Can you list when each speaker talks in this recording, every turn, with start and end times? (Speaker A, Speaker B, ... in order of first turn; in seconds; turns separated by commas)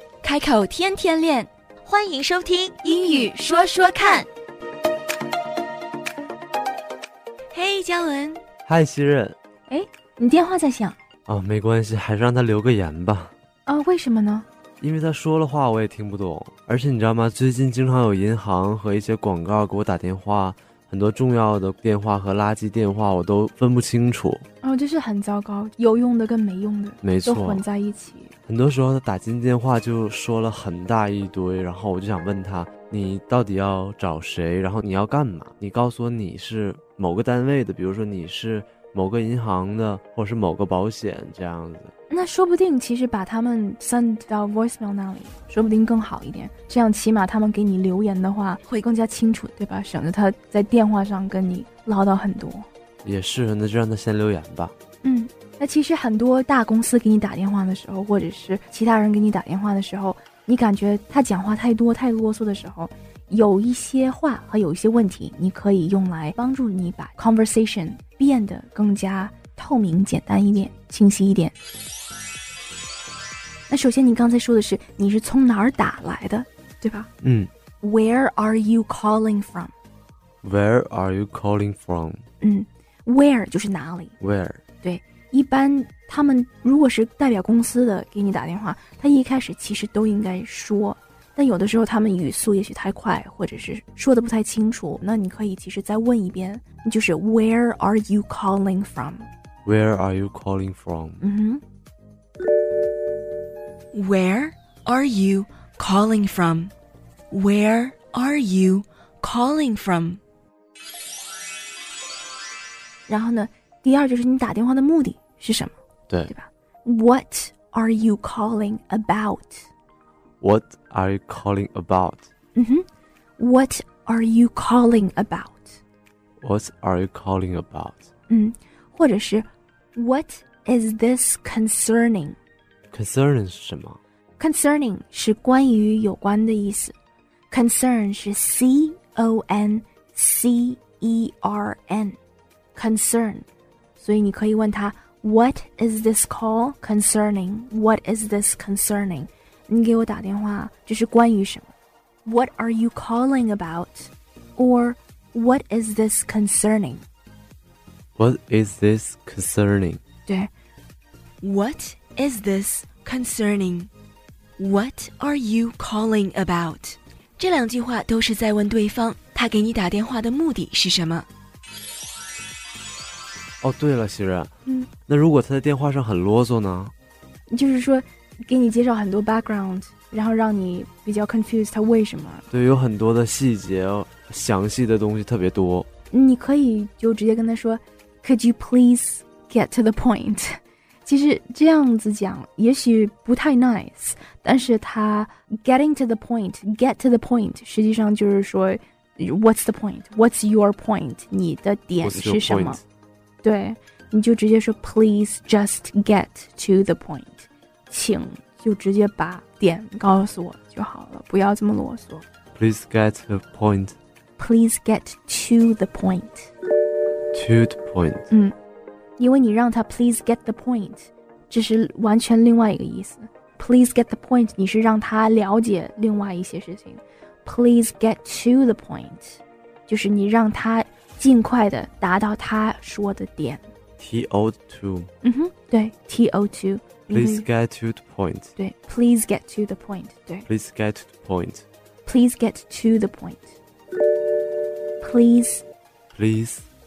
Speaker A: 0.2-1.5, Speaker B: 1.8-4.2, Speaker A: 2.8-4.2, Speaker A: 7.5-8.4, Speaker C: 8.7-9.4, Speaker D: 9.7-11.0, Speaker C: 11.3-13.3, Speaker D: 13.7-14.5, Speaker C: 14.8-24.4, Speaker D: 24.6-28.3, Speaker C: 27.0-27.6, Speaker C: 28.5-41.9, Speaker D: 42.1-52.7, Speaker C: 53.0-54.7, Speaker D: 55.0-71.5, Speaker D: 73.7-77.1, Speaker C: 77.2-77.5, Speaker D: 77.8-79.7, Speaker C: 80.4-82.2, Speaker D: 82.4-84.2, Speaker C: 84.2-84.6, Speaker D: 84.8-99.3, Speaker C: 99.7-101.2, Speaker D: 101.2-101.6, Speaker A: 103.9-106.7, Speaker A: 107.3-110.2, Speaker D: 113.1-115.7, Speaker D: 116.3-119.7, Speaker C: 120.4-122.3, Speaker D: 122.5-122.8, Speaker D: 123.4-125.8, Speaker C: 126.4-128.1, Speaker D: 128.3-132.4, Speaker C: 132.9-134.0, Speaker D: 134.4-136.9, Speaker D: 137.5-142.2, Speaker D: 142.7-143.4, Speaker D: 144.0-151.7, Speaker D: 152.2-157.0, Speaker C: 158.2-160.0, Speaker A: 161.4-163.9, Speaker A: 164.6-171.3, Speaker C: 173.6-174.5, Speaker C: 175.1-176.9, Speaker D: 177.5-182.5, Speaker C: 182.5-185.9, Speaker D: 186.1-202.8, Speaker C: 202.0-202.8, Speaker D: 203.4-212.2, Speaker C: 212.5-214.0, Speaker D: 214.4-216.5, Speaker C: 217.3-218.3, Speaker D: 218.3-218.5, Speaker D: 219.2-233.6, Speaker C: 234.0-235.1, Speaker D: 235.2-237.4, Speaker C: 237.1-238.5, Speaker D: 238.6-240.5, Speaker C: 240.5-241.6, Speaker D: 242.0-243.5, Speaker D: 245.0-245.6, Speaker C: 246.1-246.6